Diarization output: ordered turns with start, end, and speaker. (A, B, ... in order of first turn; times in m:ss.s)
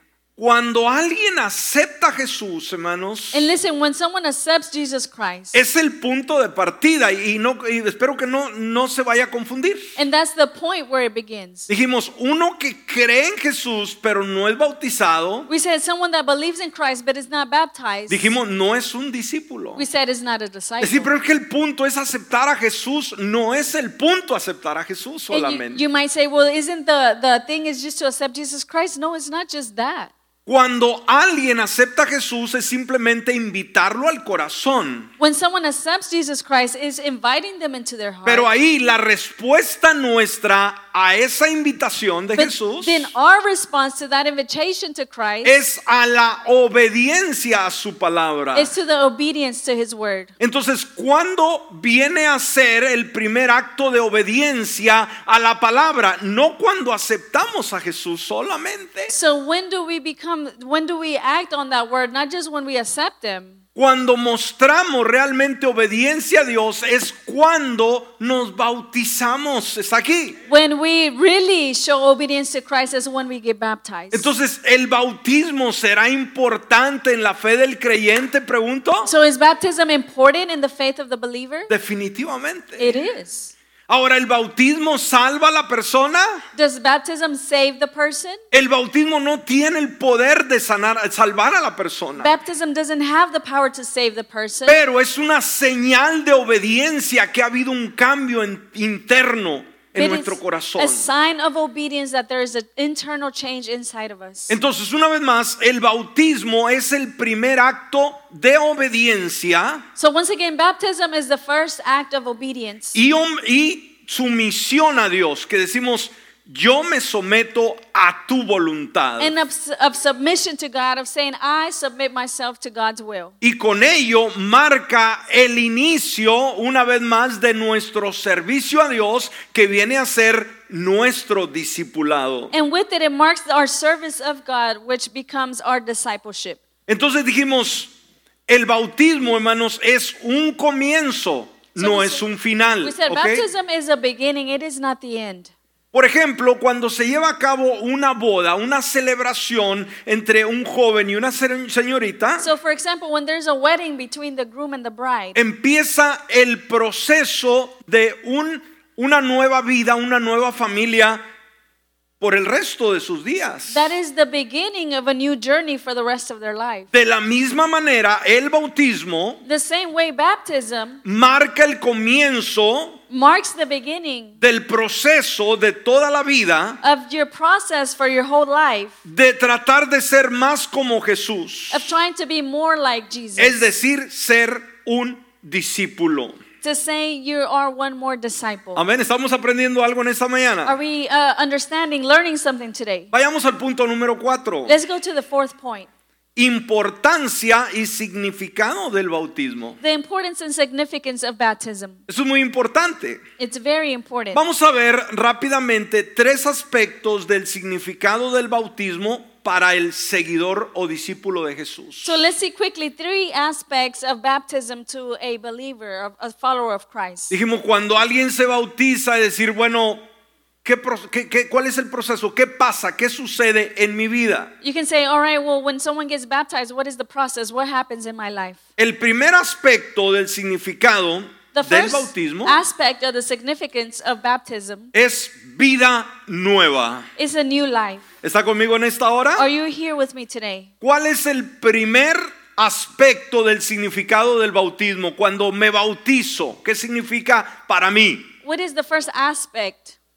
0:00.4-0:03.5 A
0:03.3-0:05.6 B
0:05.5-0:10.0 A
0:10.0-0:11.7 B
0:11.7-0:15.5 A
0:15.5-0:18.4 B
0:18.1-0:19.8 A
0:19.8-0:21.1 B
0:20.8-0:25.8 A
0:25.3-0:30.1 B
0:30.5-0:35.1 A
0:35.2-0:38.5 B
0:38.2-0:43.1 A
0:42.4-0:45.6 B
0:45.4-0:48.7 A
0:48.5-0:50.3 B
0:50.4-0:59.1 A
0:59.1-1:03.6 B
1:03.8-1:10.4 A
1:10.5-1:14.3 B
1:14.1-1:19.1 A
1:19.0-1:21.7 B
1:21.7-1:23.0 A
1:22.8-1:23.5 B
1:23.9-1:26.4 A
1:26.6-1:28.4 B
1:28.5-1:32.3 A
1:32.2-1:34.8 B
1:34.7-1:41.1 A
1:40.0-1:44.6 B
1:44.5-1:49.8 A
1:50.0-1:53.0 B
1:53.0-1:59.3 A
1:59.2-2:03.3 B
2:03.4-2:12.5 A
2:12.5-2:16.6 B
2:16.9-2:17.9 A
2:18.5-2:23.5 A
2:21.8-2:22.2 B
2:22.8-2:25.5 B
2:25.9-2:32.5 A
2:32.4-2:35.4 B
2:35.4-2:41.2 A
2:42.2-2:43.9 A
2:43.7-2:46.9 B
2:46.9-2:49.4 A
2:49.4-2:51.0 B
2:51.0-2:53.0 A
2:53.1-2:54.4 B
2:54.4-2:56.8 A
2:56.8-2:59.0 B
2:59.0-3:01.9 A
3:01.7-3:03.6 B
3:03.4-3:06.4 A
3:06.6-3:08.8 B
3:08.8-3:10.8 A
3:10.6-3:13.1 B
3:13.1-3:14.8 A
3:14.7-3:15.9 B
3:16.4-3:19.8 A
3:19.8-3:22.0 B
3:22.1-3:23.2 A
3:23.4-3:24.4 B
3:24.3-3:32.2 A
3:32.0-3:37.3 B
3:37.3-3:40.0 A
3:40.6-3:44.5 A
3:44.6-3:48.6 B
3:48.8-3:52.6 A
3:51.5-3:54.9 B
3:54.9-3:57.1 A
3:57.2-3:58.0 B
3:58.2-3:59.5 A
3:59.4-4:00.7 B
4:00.8-4:08.3 A
4:08.4-4:10.0 B